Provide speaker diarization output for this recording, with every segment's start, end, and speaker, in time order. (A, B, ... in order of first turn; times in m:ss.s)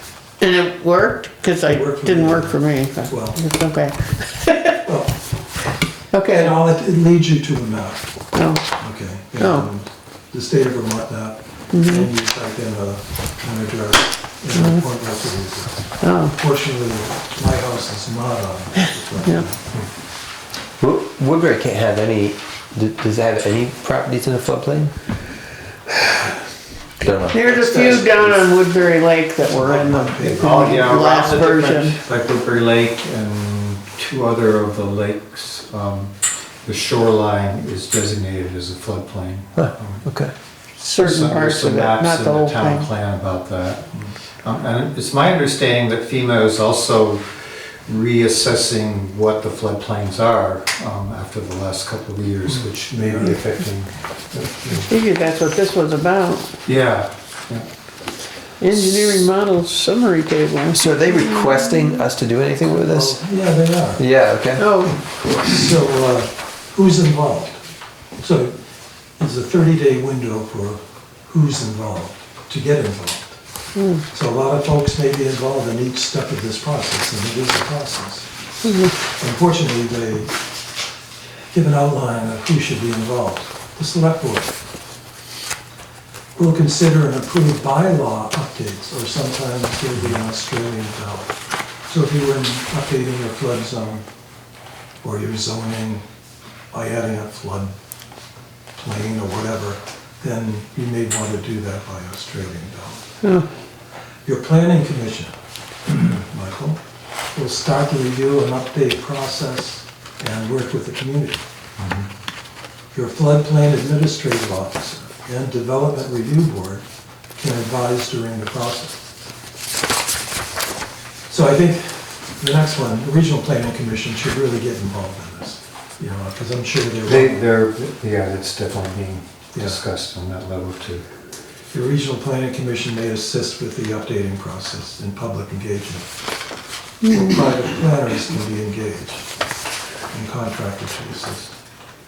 0:00.4-0:04.8 A
0:01.7-0:03.4 B
0:04.8-0:05.1 B
0:06.1-0:06.6 A
0:06.3-0:08.1 B
0:08.3-0:08.7 A
0:08.8-0:19.7 B
0:09.4-0:09.7 A
0:11.7-0:12.1 A
0:14.6-0:14.8 A
0:16.0-0:16.4 A
0:20.8-0:25.0 C
0:27.0-0:27.4 C
0:27.3-0:32.0 A
0:27.3-0:28.4 B
0:29.5-0:30.7 B
0:30.3-0:40.1 D
0:40.8-0:42.9 A
0:41.0-0:54.9 D
0:52.5-0:53.4 B
0:54.9-0:56.5 A
0:56.6-0:57.7 D
0:58.6-1:02.0 A
1:00.7-1:03.2 C
1:02.7-1:04.0 B
1:04.0-1:04.7 C
1:04.6-1:05.0 A
1:04.8-1:07.6 B
1:08.2-1:08.5 B
1:09.2-1:13.4 B
1:13.8-1:14.0 A
1:14.1-1:18.3 B
1:19.0-1:20.3 B
1:21.5-1:24.6 B
1:26.4-1:31.3 B
1:31.9-1:34.1 B
1:35.0-1:36.1 B
1:36.7-1:37.7 B
1:38.8-1:43.1 B
1:44.2-1:45.3 B
1:45.9-1:46.8 B
1:47.3-1:51.4 B
1:51.8-1:52.1 D
1:52.9-1:59.0 B
2:01.3-2:07.4 B
2:07.1-2:11.0 D
2:09.5-2:09.8 B
2:11.7-2:16.1 B
2:17.0-2:19.3 B
2:20.1-2:21.5 B